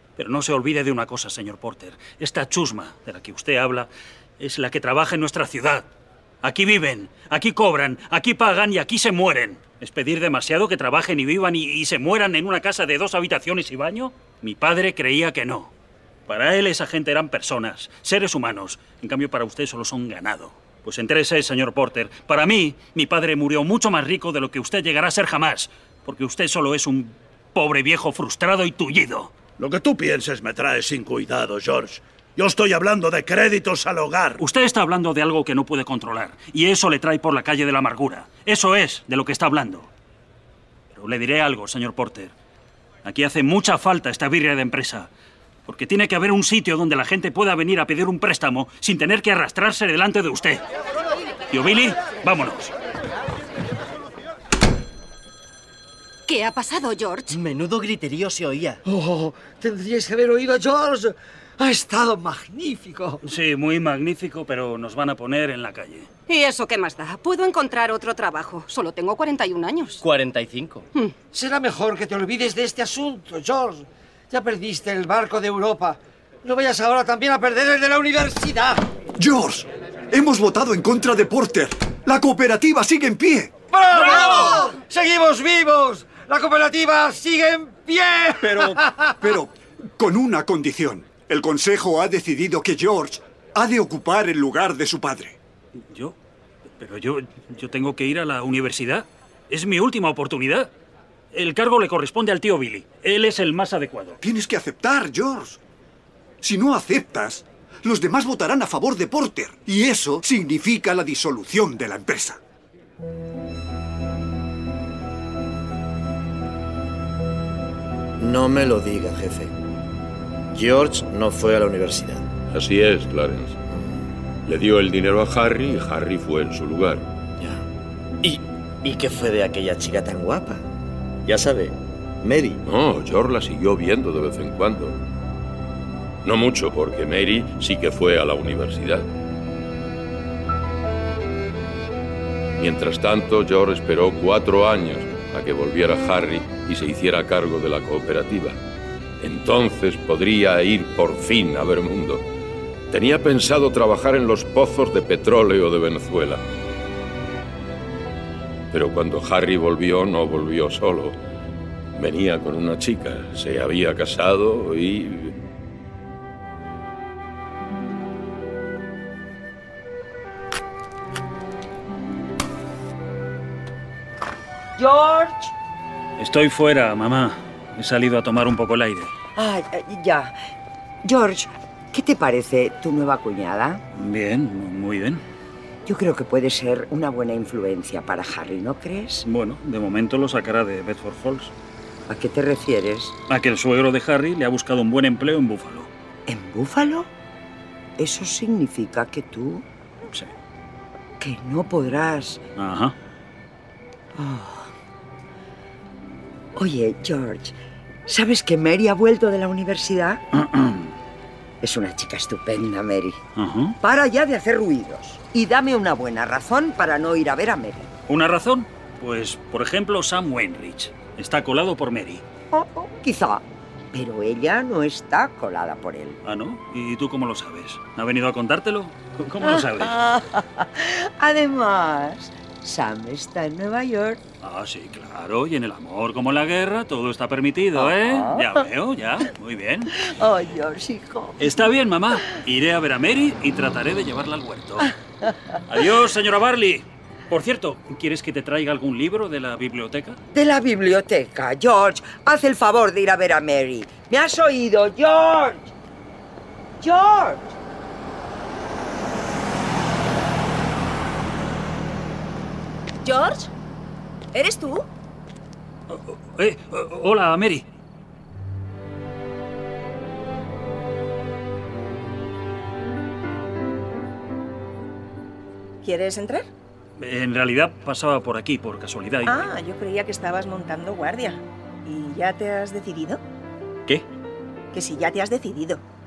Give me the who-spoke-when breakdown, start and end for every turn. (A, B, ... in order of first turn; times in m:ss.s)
0:00.2-0:05.9 A
0:06.4-0:15.7 A
0:16.3-0:29.3 A
0:29.6-0:34.4 B
0:34.4-0:39.9 A
0:40.9-0:42.3 A
0:43.0-0:45.1 A
0:45.6-0:50.6 A
0:51.5-0:52.7 A
0:56.3-0:57.4 C
0:57.3-0:58.8 D
0:58.8-1:03.2 E
1:03.2-1:06.1 A
1:06.3-1:10.0 C
1:10.0-1:10.8 D
1:11.3-1:18.8 E
1:19.2-1:23.6 F
1:23.7-1:29.1 E
1:28.4-1:35.4 F
1:35.9-1:36.2 A
1:36.8-1:40.7 A
1:41.3-1:44.2 A
1:44.2-1:45.6 F
1:46.4-1:52.4 F
1:58.2-1:59.5 G
2:00.5-2:02.3 G
2:02.5-2:03.6 H
2:04.4-2:07.1 H
2:08.2-2:10.6 G
2:11.2-2:12.6 G
2:12.6-2:15.0 H
2:16.2-2:19.1 H
2:22.6-2:28.6 H
2:29.2-2:32.2 H
2:32.9-2:36.4 H
2:38.7-2:41.2 H
2:41.9-2:45.4 H
2:54.8-2:55.5 I
2:56.2-2:59.1 A
2:59.4-3:00.3 I
3:01.0-3:03.8 I
3:03.9-3:05.2 A
3:05.8-3:09.2 I
3:09.2-3:11.5 A
3:12.1-3:13.2 I
3:13.3-3:15.9 A
3:16.3-3:17.1 I
3:18.0-3:19.6 I
3:21.2-3:22.4 I
3:22.6-3:22.9 A
3:24.1-3:24.7 I
3:26.5-3:27.6 I
3:28.1-3:30.2 I
3:30.3-3:30.9 A
3:31.6-3:33.2 I
3:33.4-3:33.8 A
3:33.8-3:37.9 I
3:38.1-3:42.2 A
3:42.5-3:46.2 I
3:46.2-3:50.0 A
3:49.4-3:54.2 I
3:54.4-3:59.9 A
3:57.8-3:58.6 I
3:59.9-4:01.4 I
4:01.4-4:04.9 A
4:04.8-4:05.3 I
4:05.7-4:10.2 A
4:10.3-4:15.7 I
4:16.8-4:17.5 I
4:23.0-4:23.5 J
4:24.3-4:24.9 J
4:25.9-4:27.7 A
4:35.8-4:36.5 J
4:37.0-4:39.5 A
4:39.2-4:43.2 J
4:44.7-4:45.8 J